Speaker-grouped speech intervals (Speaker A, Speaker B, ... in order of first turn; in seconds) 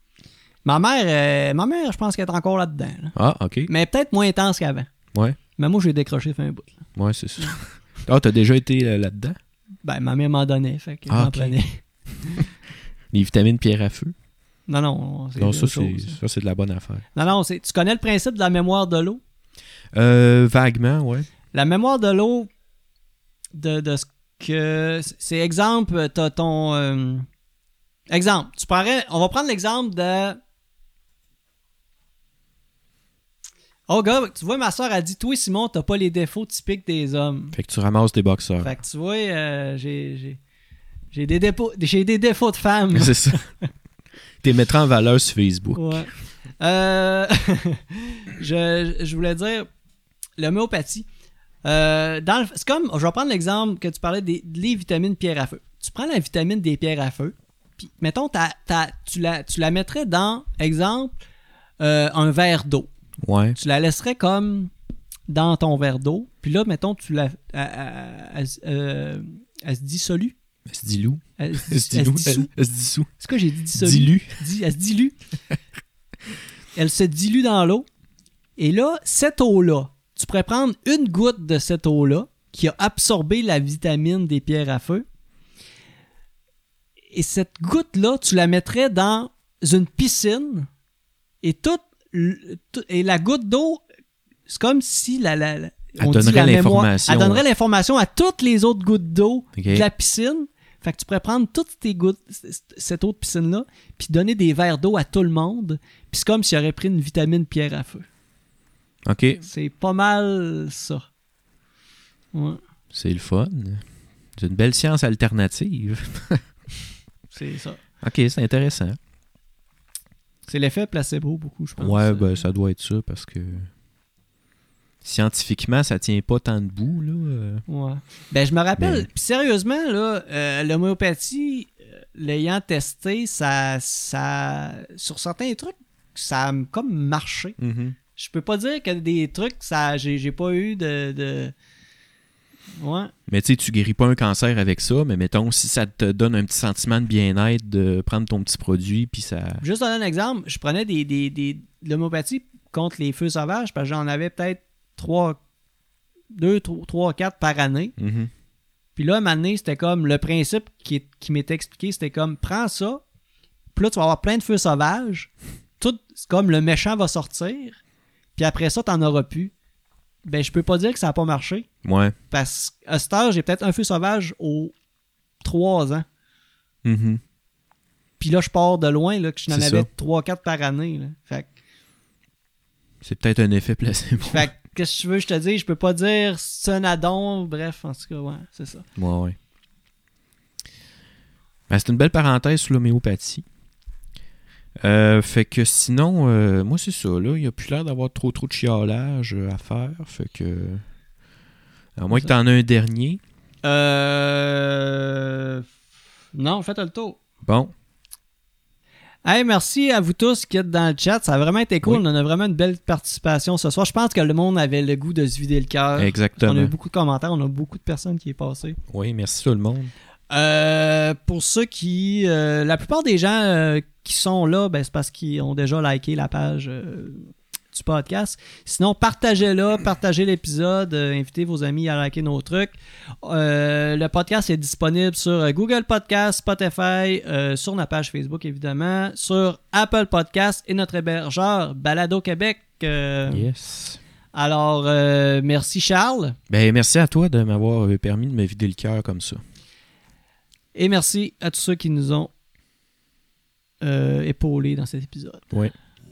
Speaker A: 0.7-3.1, 3.7-4.9, 5.6-6.8, 9.8-12.4, 14.7-16.2, 17.1-19.2, 21.5-22.5, 23.6-27.3, 28.1-30.4, 33.9-37.6, 38.6-40.4, 41.1-43.4, 45.8-49.7, 50.4-51.1, 51.6-61.2, 61.8-62.9, 63.6-64.7, 65.3-70.4, 71.4-72.5, 73.2-75.2, 76.8-77.9, 78.6-85.0, 87.1-90.7, 91.4-93.8, 94.5-108.1, 109.4-111.1, 112.3-112.6, 117.3-117.8, 120.5-122.4, 127.7-137.6, 138.2-141.5, 142.8-143.1, 149.6-155.4, 156.3-157.9, 159.0-163.0, 163.8-165.3, 165.8-167.8, 168.4-169.5, 170.2-171.7, 172.3-174.7, 175.4-176.1, 178.2-181.5, 184.2-188.9, 203.6-205.7, 206.3-207.2, 209.2-218.8, 220.3-243.5, 244.3-246.4, 250.7-252.3, 253.8-255.4
Speaker B: 3.1-3.7, 7.0-9.4, 11.1-11.6, 13.1-14.1, 15.4-17.1, 19.9-21.3, 37.5-38.7, 43.0-43.4, 44.4-46.1, 63.2-63.6, 70.7-73.1, 73.8-74.3, 96.0-97.4, 99.6-99.9, 109.1-109.4, 112.9-113.8, 114.4-116.4, 118.0-119.0, 121.8-123.7, 125.0-127.6, 128.8-129.1, 137.6-138.0, 143.3-149.6, 158.0-158.3, 171.8-172.2, 176.8-177.2, 179.5-179.9, 183.0-184.5, 189.0-189.4, 191.7-193.4, 194.8-200.8, 202.0-203.2, 207.4-207.7, 216.0-216.7, 218.9-219.9, 243.3-244.0, 246.5-249.4